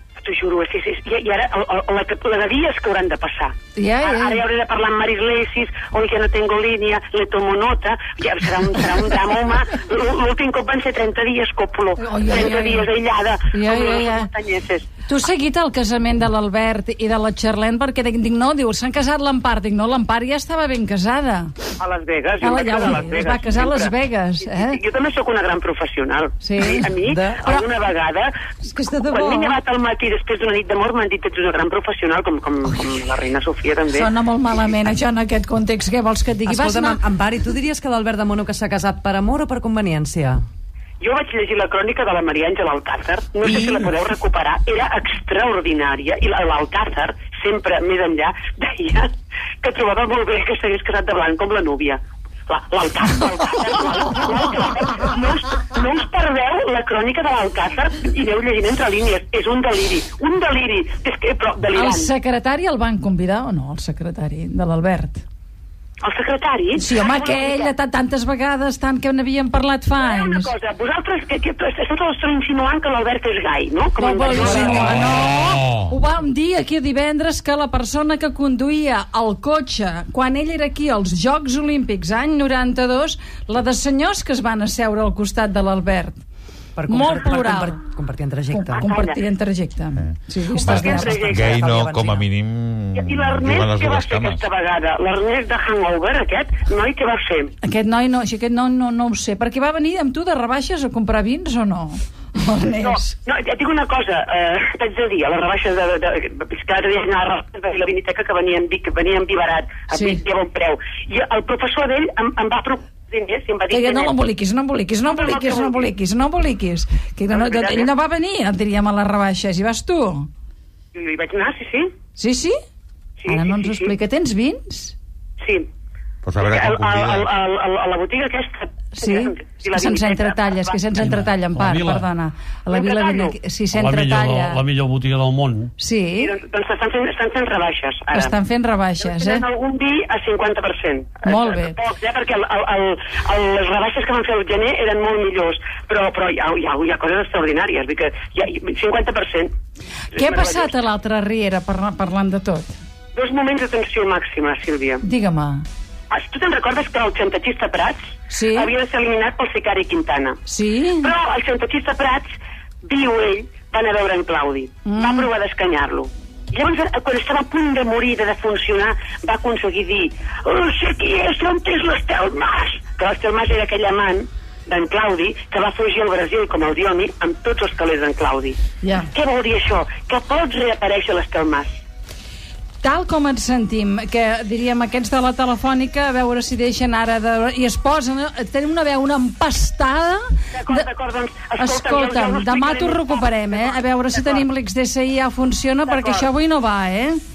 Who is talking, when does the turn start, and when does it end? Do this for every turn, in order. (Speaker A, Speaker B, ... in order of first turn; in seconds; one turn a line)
Speaker A: 0.2-14.9
Speaker B: 3.8-4.4
Speaker B: 12.0-12.9
Speaker B: 13.5-14.3
Speaker B: 15.0-21.5
Speaker A: 21.8-23.9
Speaker B: 22.4-24.8
Speaker A: 24.5-28.3
Speaker B: 26.4-26.9
Speaker C: 27.0-27.5
Speaker C: 28.6-29.6
Speaker A: 29.0-34.1
Speaker B: 33.9-37.0
Speaker C: 36.5-40.4
Speaker A: 41.0-49.1
Speaker A: 49.6-62.1
Speaker B: 61.7-65.2
Speaker A: 66.0-67.7
Speaker B: 66.8-70.5
Speaker A: 70.0-75.1
Speaker B: 74.0-86.2
Speaker C: 86.8-88.8
Speaker B: 86.9-87.8
Speaker B: 88.5-91.2
Speaker A: 88.8-89.2
Speaker D: 90.0-94.4
Speaker C: 90.5-92.3
Speaker A: 90.8-91.5
Speaker A: 92.9-97.5
Speaker B: 97.6-103.1
Speaker A: 102.8-114.1
Speaker B: 109.9-110.2
Speaker B: 113.7-120.3
Speaker A: 115.1-115.9
Speaker A: 117.3-117.9
Speaker A: 120.9-121.9
Speaker B: 122.2-122.6
Speaker A: 123.2-123.9
Speaker B: 123.3-124.9
Speaker A: 125.4-125.7
Speaker D: 126.2-127.3
Speaker A: 126.4-130.8
Speaker B: 128.9-134.6
Speaker E: 131.0-132.0
Speaker A: 132.7-133.3
Speaker E: 133.7-135.7
Speaker B: 135.8-136.3
Speaker A: 136.2-138.3
Speaker B: 138.1-139.4
Speaker A: 139.0-149.5
Speaker B: 141.2-141.8
Speaker B: 150.1-152.8
Speaker A: 150.2-150.7
Speaker A: 153.1-155.0
Speaker B: 155.0-155.6
Speaker A: 156.1-160.4
Speaker B: 158.3-158.7
Speaker B: 160.5-161.1
Speaker A: 161.0-162.3
Speaker A: 162.8-178.6
Speaker B: 164.8-165.3
Speaker B: 178.8-179.1
Speaker A: 179.1-181.8
Speaker B: 182.8-190.8
Speaker A: 190.5-194.4
Speaker B: 191.6-197.2
Speaker A: 195.8-196.3